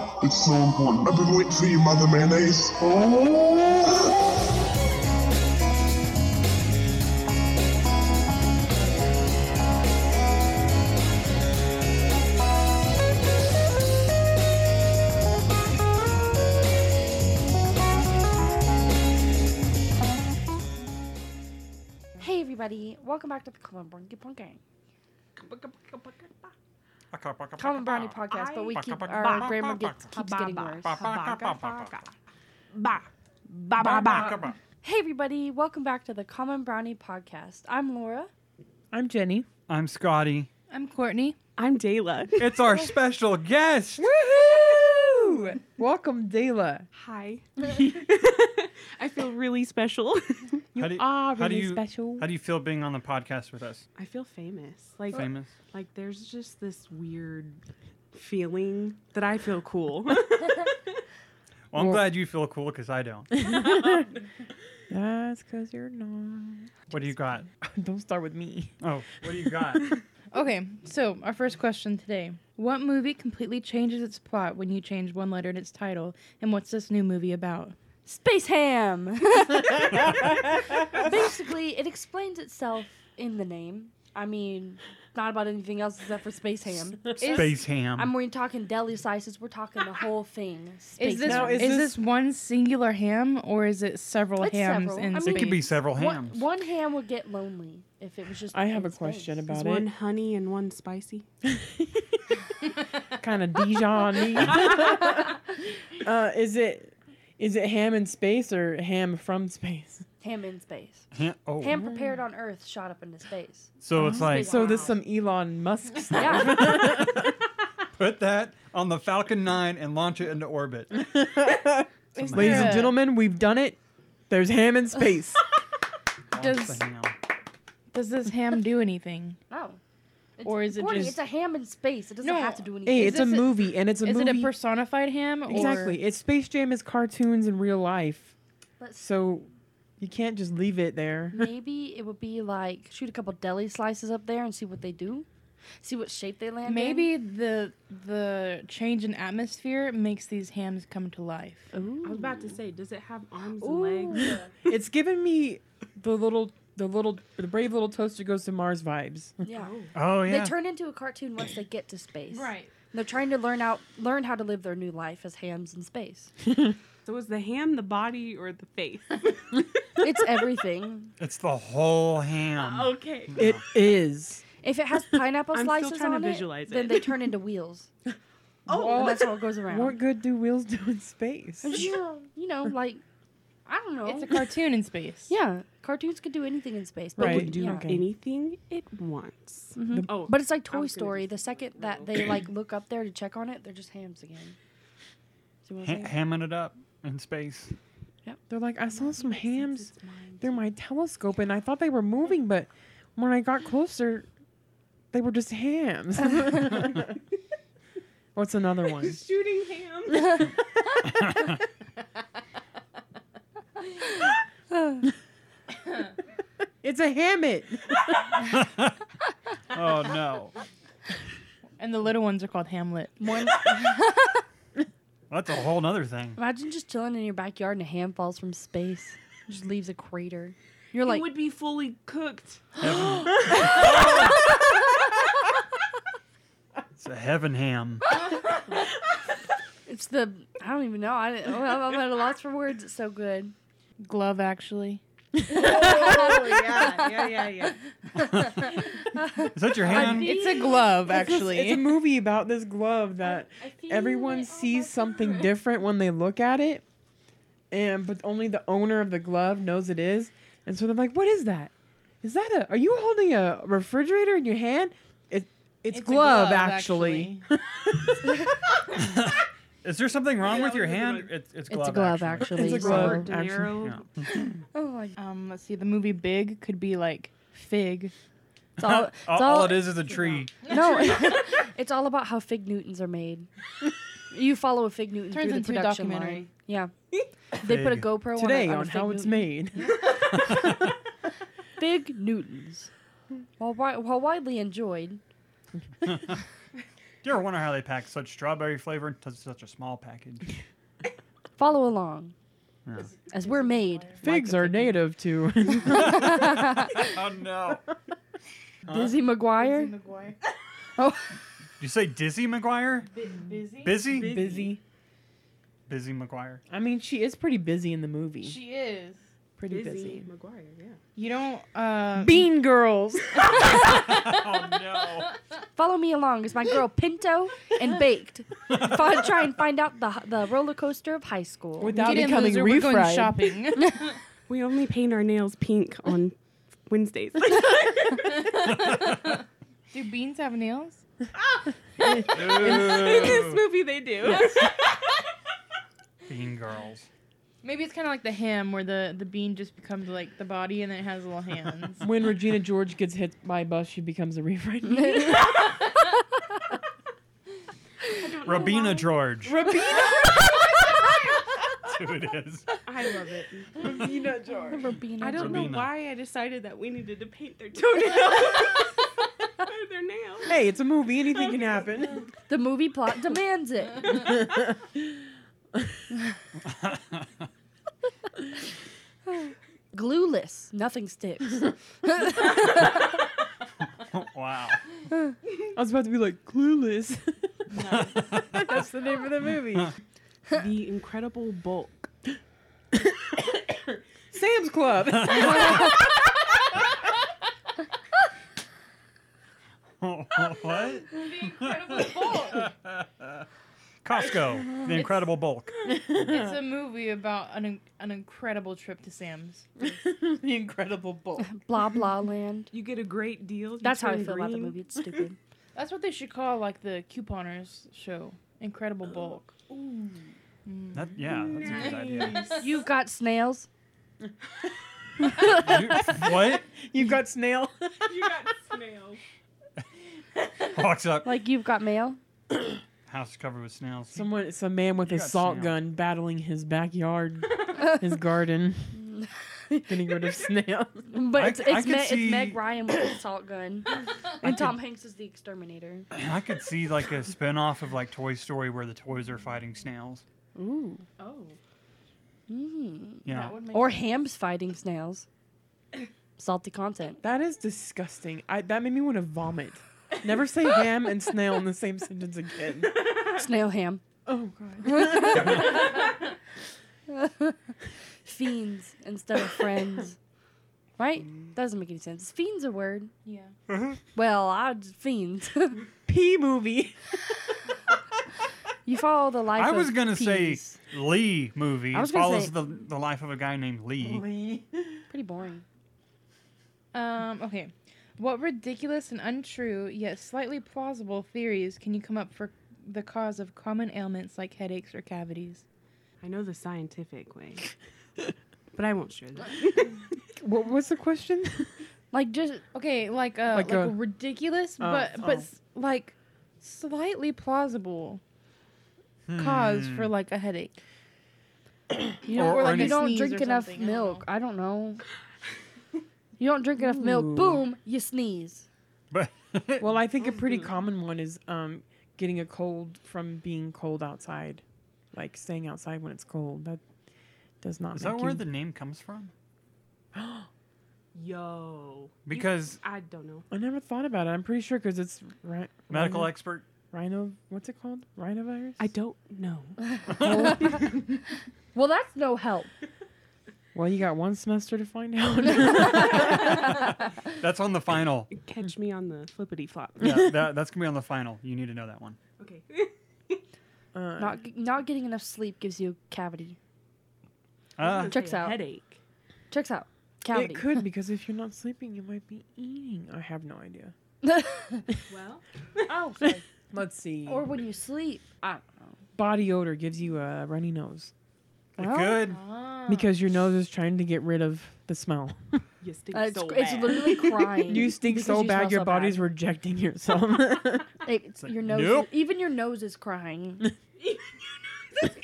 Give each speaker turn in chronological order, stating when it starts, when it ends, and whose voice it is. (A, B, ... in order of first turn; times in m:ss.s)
0:00.2-0:04.1 A
0:22.2-0:24.6 B
0:25.4-0:26.5 C
0:27.1-0:30.1 D
0:27.6-0:31.0 B
0:28.3-0:32.1 C
0:30.8-0:32.0 D
0:32.7-0:34.5 C
0:33.8-0:34.6 D
0:34.8-0:38.3 B
0:38.9-0:39.5 E
0:39.7-0:40.5 D
0:40.7-0:41.4 F
0:41.6-0:42.7 C
0:42.4-0:44.1 D
0:44.0-0:46.9 E
0:46.9-0:50.6 C
0:50.8-0:52.3 E
0:50.8-0:53.8 D
0:54.0-0:57.6 C
0:55.1-0:55.5 D
0:58.1-1:00.8 C
1:01.7-1:03.4 D
1:01.7-1:02.0 E
1:03.3-1:04.1 E
1:04.9-1:06.8 E
1:06.9-1:07.5 D
1:07.6-1:08.8 E
1:08.8-1:09.9 D
1:09.4-1:09.9 E
1:10.3-1:17.8 F
1:18.1-1:20.2 B
1:19.8-1:20.9 E
1:19.9-1:20.3 D
1:20.9-1:31.7 B
1:27.2-1:27.6 F
1:27.3-1:28.1 D
1:31.0-1:35.7 F
1:31.2-1:32.0 E
1:34.4-1:39.4 B
1:35.2-1:36.4 D
1:38.5-1:39.9 E
1:39.5-1:41.3 C
1:41.4-1:42.2 E
1:43.2-1:50.1 E
1:50.2-1:54.9 B
1:51.1-1:51.8 D
1:51.7-1:52.2 E
1:53.8-1:54.6 D
1:53.9-1:57.4 E
1:54.5-1:54.8 C
1:56.2-1:56.8 B
1:58.0-2:01.1 D
2:00.9-2:03.8 E
2:02.2-2:03.0 F
2:02.2-2:02.8 D
2:04.3-2:05.4 E
2:06.3-2:07.2 D
2:06.4-2:06.8 F
2:07.9-2:09.4 F
2:09.5-2:09.8 B
2:10.4-2:13.4 B
2:10.4-2:11.2 F
2:12.2-2:16.0 F
2:12.9-2:14.5 E
2:15.5-2:18.4 E
2:19.0-2:21.5 E
2:21.3-2:25.3 B
2:25.8-2:27.1 B
2:26.6-2:31.7 F
2:31.7-2:32.6 B
2:32.0-2:34.6 C
2:33.6-2:34.5 B
2:34.7-2:39.4 E
2:39.4-2:46.3 B
2:39.5-2:39.9 C
2:39.9-2:40.6 D
2:42.3-2:42.7 F
2:46.4-2:46.8 E
2:47.1-2:49.7 C
2:50.0-2:51.1 B
2:51.2-2:53.6 D
2:52.6-2:53.4 C
2:53.4-2:54.4 E
2:54.6-2:57.9 B
2:55.5-2:57.2 C
2:58.7-3:01.9 E
2:58.7-2:59.0 C
2:58.9-3:00.0 B
3:01.6-3:03.0 B
3:03.7-3:04.4 B
3:04.0-3:05.3 F
3:05.3-3:07.9 B
3:07.2-3:08.1 E
3:07.2-3:12.4 C
3:09.8-3:14.6 B
3:15.6-3:16.1 B
3:15.8-3:17.7 D
3:18.5-3:24.3 E
3:19.0-3:20.7 C
3:25.1-3:27.1 E
3:28.4-3:29.2 E
3:29.0-3:30.4 C
3:31.0-3:31.6 D
3:34.0-3:35.0 B
3:36.8-3:38.4 E
3:38.4-3:39.0 D
3:39.7-3:40.5 D
3:41.8-3:43.2 F
3:43.2-3:44.4 B
3:45.3-3:46.4 D
3:46.4-3:51.3 B
3:51.0-3:52.7 C
3:52.8-3:54.4 D
3:52.9-3:53.6 E
3:53.5-3:55.1 B
3:57.0-3:58.1 D
3:58.1-3:58.6 B
3:59.9-4:03.6 B
4:04.0-4:05.0 F
4:05.5-4:06.4 E
4:05.5-4:11.0 B
4:05.6-4:07.7 C
4:08.3-4:08.8 D
4:09.6-4:10.5 D
4:09.8-4:11.9 F
4:11.1-4:16.8 E
4:13.6-4:14.7 B
4:17.7-4:28.4 E
4:25.9-4:27.4 F
4:28.9-4:33.1 D
4:30.4-4:31.3 C
4:31.7-4:33.3 B
4:32.5-4:33.9 E
4:32.6-4:34.0 C
4:33.8-4:34.3 D
4:34.7-4:35.2 B
4:35.2-4:38.1 F
4:38.8-4:40.6 D
4:38.8-4:43.5 B
4:40.6-4:41.5 F
4:44.3-4:46.9 B
4:45.3-4:46.5 F
4:47.5-4:49.5 B
4:47.6-4:48.2 D
4:48.4-4:50.0 E
4:49.8-4:50.2 F
4:50.3-4:50.9 D
4:51.8-4:52.9 B
4:53.6-4:55.2 B
4:56.0-4:56.4 D
4:57.2-5:00.6 D
5:01.6-5:02.4 B
5:02.9-5:03.1 D
5:03.0-5:04.2 F
5:03.3-5:05.0 B
5:04.2-5:06.5 E
5:05.9-5:07.2 B
5:05.9-5:07.8 D
5:08.8-5:09.2 D
5:08.9-5:10.0 B
5:09.5-5:10.4 F
5:11.0-5:11.4 B
5:11.8-5:13.1 D
5:13.1-5:14.0 F
5:13.8-5:14.4 D
5:14.0-5:14.7 C
5:14.1-5:14.8 E
5:15.9-5:16.6 D
5:16.7-5:18.6 E
5:18.4-5:19.2 F
5:19.6-5:20.3 E
5:19.7-5:21.0 C
5:21.2-5:22.5 F
5:22.2-5:23.9 E
5:23.5-5:25.4 D
5:23.6-5:25.0 F
5:25.8-5:32.1 B
5:28.7-5:29.2 D
5:31.8-5:33.6 E
5:31.9-5:34.1 F
5:34.5-5:36.4 C
5:36.9-5:38.2 C
5:38.7-5:39.4 D
5:39.9-5:41.0 F
5:42.0-5:42.6 E
5:42.0-5:45.1 C
5:42.3-5:43.7 D
5:46.3-5:47.1 D
5:47.6-5:52.0 F
5:52.0-5:55.7 E
5:54.8-5:56.0 B
5:58.0-5:59.1 C
5:58.4-5:59.6 D
5:59.4-6:00.8 E
6:01.8-6:02.7 D
6:02.9-6:03.9 C
6:03.8-6:04.9 E
6:04.7-6:05.8 B
6:05.2-6:10.5 C
6:05.4-6:05.9 D
6:10.5-6:12.3 E
6:12.5-6:14.3 B
6:14.2-6:15.0 E
6:16.6-6:17.5 D
6:19.3-6:23.0 B
6:24.0-6:24.8 D
6:25.8-6:27.7 E
6:27.7-6:28.2 F
6:27.8-6:28.8 D
6:28.5-6:29.9 E
6:30.5-6:32.1 C
6:32.9-6:36.0 E
6:35.1-6:35.9 D
6:35.6-6:35.8 B
6:40.0-6:43.5 D
6:41.1-6:42.7 F
6:44.0-6:45.7 D
6:44.7-6:45.0 B
6:45.8-6:46.6 E
6:46.1-6:50.0 F
6:49.8-6:51.5 E
6:51.4-6:52.7 B
6:52.7-6:55.2 C
6:53.8-6:55.4 B
6:55.8-6:59.6 F
6:59.7-7:00.2 C
7:00.7-7:02.7 F
7:00.9-7:02.5 D
7:01.4-7:02.7 C
7:02.6-7:03.7 B
7:05.3-7:08.3 E
7:05.4-7:06.2 B
7:05.5-7:06.7 D
7:08.0-7:09.2 C
7:10.7-7:11.3 D
7:11.2-7:12.2 B
7:13.1-7:14.2 D
7:14.1-7:19.0 E
7:15.0-7:15.8 D
7:18.9-7:20.0 B
7:19.9-7:21.1 E
7:21.1-7:26.1 B
7:21.4-7:22.6 D
7:24.4-7:24.8 D
7:26.1-7:30.2 D
7:30.6-7:31.1 B
7:31.2-7:31.5 C
7:31.2-7:31.5 F
7:32.5-7:35.3 B
7:33.2-7:33.6 D
7:33.3-7:34.1 F
7:36.4-7:37.2 B
7:37.2-7:42.9 E
7:43.3-7:44.0 B
7:44.3-7:45.7 E
7:44.8-7:46.1 B
7:47.1-7:47.7 B
7:48.2-7:50.2 B
7:51.0-7:53.1 B
7:53.2-7:53.5 F
7:53.7-7:54.0 D
7:54.2-7:55.8 B
7:56.1-7:57.0 E
7:58.8-8:00.8 B
7:59.6-8:04.2 D
8:01.9-8:02.5 B
8:04.0-8:05.0 E
8:05.1-8:05.6 B
8:06.9-8:15.6 F
8:16.2-8:17.7 C
8:18.7-8:20.1 C
8:20.4-8:21.8 E
8:22.1-8:22.6 B
8:22.7-8:28.2 F
8:23.5-8:24.0 E
8:24.8-8:25.5 E
8:29.3-8:30.1 D
8:29.4-8:30.8 F
8:32.2-8:35.0 B
8:32.4-8:33.1 D
8:32.4-8:34.2 F
8:36.4-8:38.7 B
8:36.8-8:37.6 E
8:39.1-8:40.0 D
8:39.8-8:46.8 E
8:40.2-8:40.7 C
8:47.6-8:48.4 E
8:47.9-8:49.3 D
8:50.1-8:50.5 E
8:51.2-8:53.5 C
8:52.3-8:52.8 D
8:53.5-8:56.3 E
8:55.9-8:56.7 D
8:56.8-8:58.8 E
8:58.8-8:59.8 C
8:59.8-9:00.9 B
9:00.1-9:00.8 D
9:00.2-9:01.2 E
9:01.7-9:02.7 B
9:03.7-9:06.6 E
9:05.6-9:07.2 B
9:06.5-9:08.3 D
9:08.3-9:10.2 C
9:10.0-9:12.2 D
9:10.0-9:10.4 E
9:12.4-9:13.4 C
9:13.9-9:14.4 E
9:14.2-9:16.6 B
9:17.8-9:18.2 D
9:17.8-9:19.0 C
9:18.1-9:18.6 B
9:19.5-9:20.7 B
9:20.3-9:23.9 E
9:24.2-9:24.8 B
9:25.1-9:25.4 C
9:25.9-9:26.4 B
9:26.2-9:27.5 E
9:27.3-9:28.4 B
9:29.2-9:31.1 E
9:31.8-9:32.4 D
9:31.8-9:32.3 B
9:32.3-9:33.1 F
9:32.9-9:35.6 E
9:35.8-9:37.6 C
9:36.1-9:39.2 B
9:37.6-9:40.9 E
9:41.0-9:43.7 B
9:41.4-9:42.1 D